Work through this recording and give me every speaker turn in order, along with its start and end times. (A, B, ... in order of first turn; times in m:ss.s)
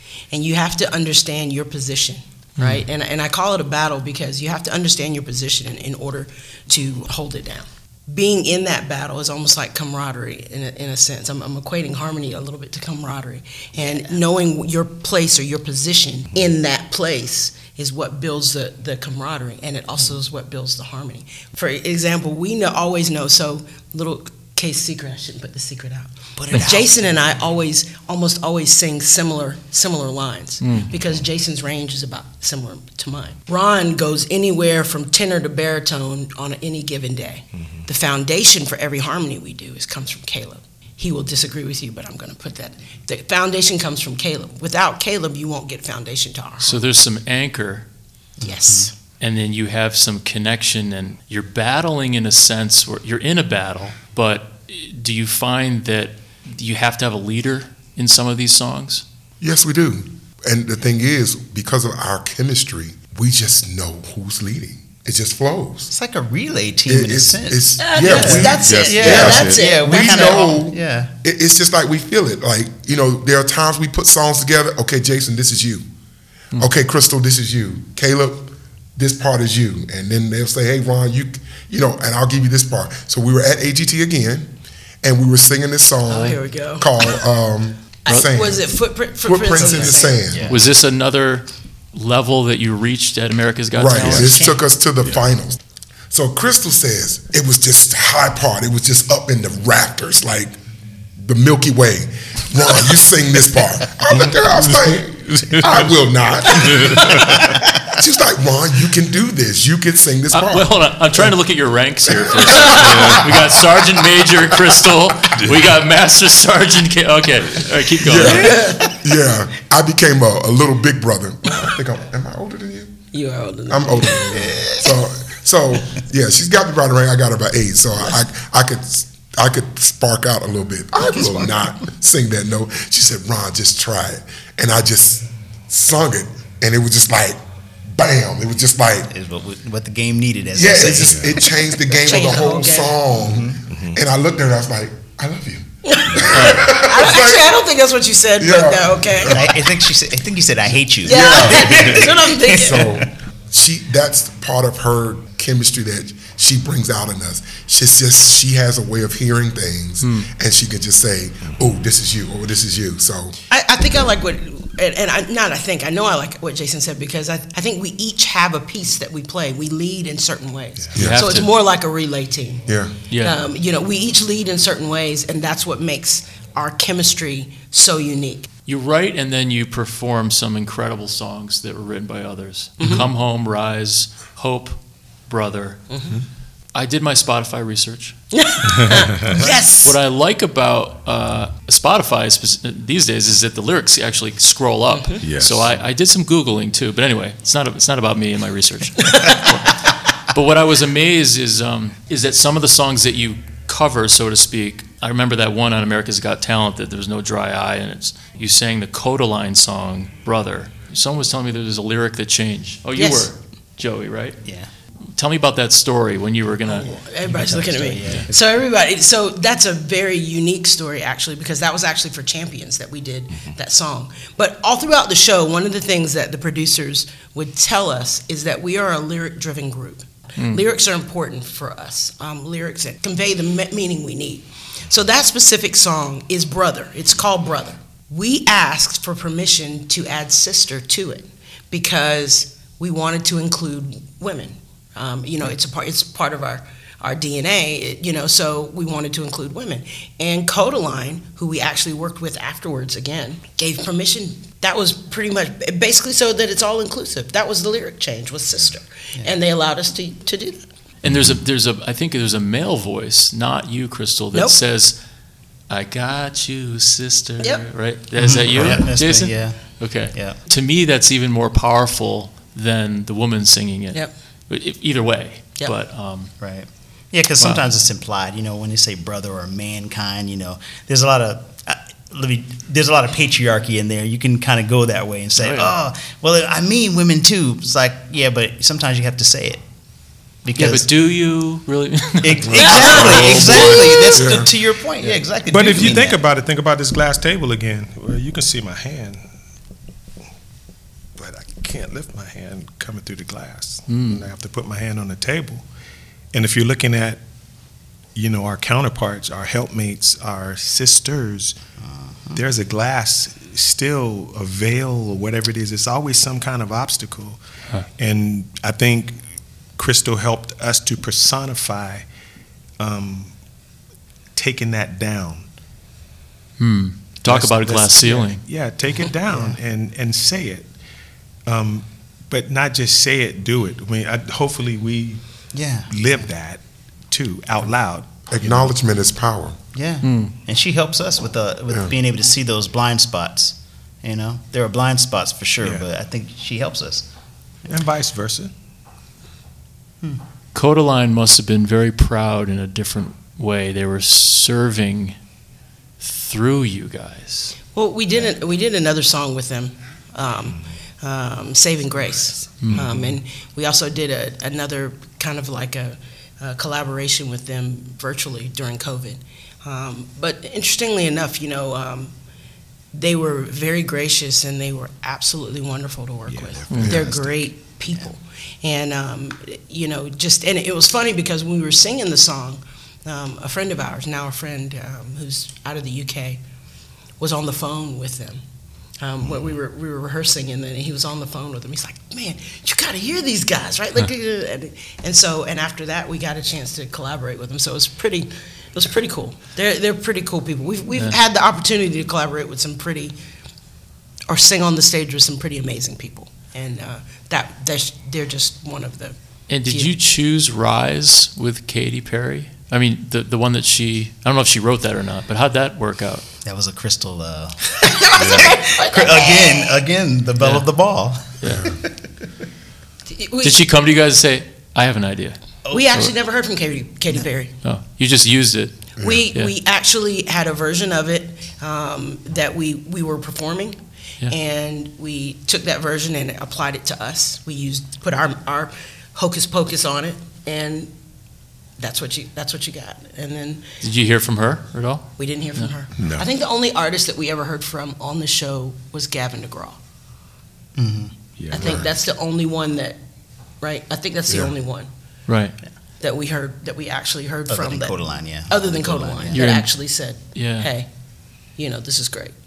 0:00.3-0:46.9 A
0:02.6-0:02.8 B
0:26.4-0:27.2 C
0:30.6-0:30.9 B
0:37.5-0:37.9 D
0:46.6-0:47.9 B
0:48.4-0:48.9 C
0:48.4-0:48.9 A
0:49.2-0:59.0 B
0:59.4-1:05.9 E
1:05.9-1:11.1 C
1:06.9-1:15.8 E
1:07.8-1:10.6 A
1:08.4-1:09.6 D
1:16.6-1:28.7 E
1:26.1-1:27.0 A
1:28.1-1:30.3 A
1:29.2-1:30.4 E
1:29.6-1:30.6 C
1:30.5-1:34.4 B
1:33.7-1:40.6 E
1:34.0-1:34.6 C
1:41.2-1:47.4 E
1:44.1-1:45.9 D
1:46.5-1:47.6 D
1:47.9-1:51.2 E
1:50.3-1:58.6 B
1:52.1-1:52.8 E
1:52.5-1:53.0 A
1:52.7-1:53.3 D
1:58.0-2:03.0 E
1:58.2-1:59.0 A
2:03.1-2:04.5 A
2:03.7-2:19.1 E
2:04.3-2:04.9 C
2:11.1-2:11.5 C
2:19.1-2:21.4 C
2:20.6-2:27.6 E
2:21.1-2:21.4 D
2:21.9-2:23.0 A
2:23.2-2:23.6 C
2:23.7-2:24.0 D
2:25.9-2:29.5 A
2:26.3-2:26.7 D
2:28.4-2:29.5 E
2:29.3-2:33.1 C
2:31.0-2:32.8 A
2:31.0-2:32.1 E
2:32.6-2:43.4 E
2:40.0-2:40.3 B
2:43.5-2:52.7 A
2:51.0-2:51.2 E
2:51.0-2:51.5 B
2:52.7-2:53.0 E
2:53.1-2:53.4 B
2:53.2-2:58.5 A
2:58.7-3:05.8 B
3:02.8-3:03.1 A
3:05.9-3:06.2 A
3:06.8-3:08.2 B
3:08.3-3:10.0 A
3:08.7-3:09.0 D
3:09.8-3:34.4 B
3:14.9-3:15.2 A
3:15.2-3:15.8 D
3:19.0-3:19.4 A
3:33.0-3:33.3 A
3:34.4-3:34.7 C
3:35.1-3:36.9 B
3:36.6-4:20.6 A
3:37.3-3:38.5 C
3:50.4-3:50.6 B
4:21.0-4:25.0 B
4:21.1-4:21.4 D
4:25.7-4:36.3 B
4:28.2-4:30.4 C
4:36.4-4:49.6 C
4:37.4-4:37.6 B
4:45.4-4:45.7 B
4:50.4-4:50.9 C
4:50.6-4:54.1 B
4:52.2-4:56.2 C
4:52.6-4:54.3 A
4:54.2-4:54.5 E
4:55.5-4:59.2 D
5:01.2-5:05.6 D
5:03.9-5:04.2 B
5:06.3-5:07.2 D
5:08.2-5:11.6 D
5:11.8-5:12.4 C
5:12.3-5:17.4 D
5:18.0-5:19.2 D
5:19.8-5:22.1 D
5:22.8-5:23.3 D
5:24.4-5:25.5 D
5:26.6-5:28.4 B
5:27.2-5:30.7 D
5:28.9-5:29.6 C
5:31.5-5:35.2 D
5:35.5-5:35.9 C
5:35.9-5:38.7 D
5:38.3-5:39.6 E
5:39.7-5:47.1 C
5:40.0-5:40.3 B
5:45.6-5:45.9 D
5:47.7-5:48.5 D
5:50.5-5:55.2 B
5:56.0-5:57.5 B
5:57.7-6:12.1 A
6:02.6-6:02.9 B
6:02.7-6:03.2 D
6:12.9-6:26.4 A
6:16.3-6:18.1 C
6:16.7-6:17.0 B
6:16.8-6:17.1 E
6:27.2-6:28.4 A
6:29.0-6:43.2 A
6:44.3-6:49.2 A
6:49.5-6:56.2 B
6:49.7-6:49.9 A
6:56.4-7:01.9 C
6:57.8-6:59.8 A
6:58.2-6:58.5 D
7:00.4-7:00.7 B
7:01.4-7:01.6 B
7:01.5-7:01.7 E
7:03.1-7:03.6 A
7:03.4-7:05.4 B
7:05.7-7:06.0 C
7:05.7-7:07.5 A
7:07.6-7:09.5 B
7:09.0-7:09.3 E
7:09.0-7:20.9 A
7:21.8-7:23.6 A
7:23.8-7:25.7 B
7:25.2-7:29.8 A
7:26.0-7:26.3 D
7:30.8-7:31.1 C
7:31.4-7:31.9 D
7:31.5-7:33.0 A
7:31.6-7:31.9 E
7:33.6-7:34.9 A
7:34.3-7:34.5 E
7:35.3-7:35.6 B
7:36.0-7:40.9 A
7:37.5-7:39.5 C
7:39.3-7:39.7 B
7:40.3-7:40.7 B
7:41.6-7:42.3 A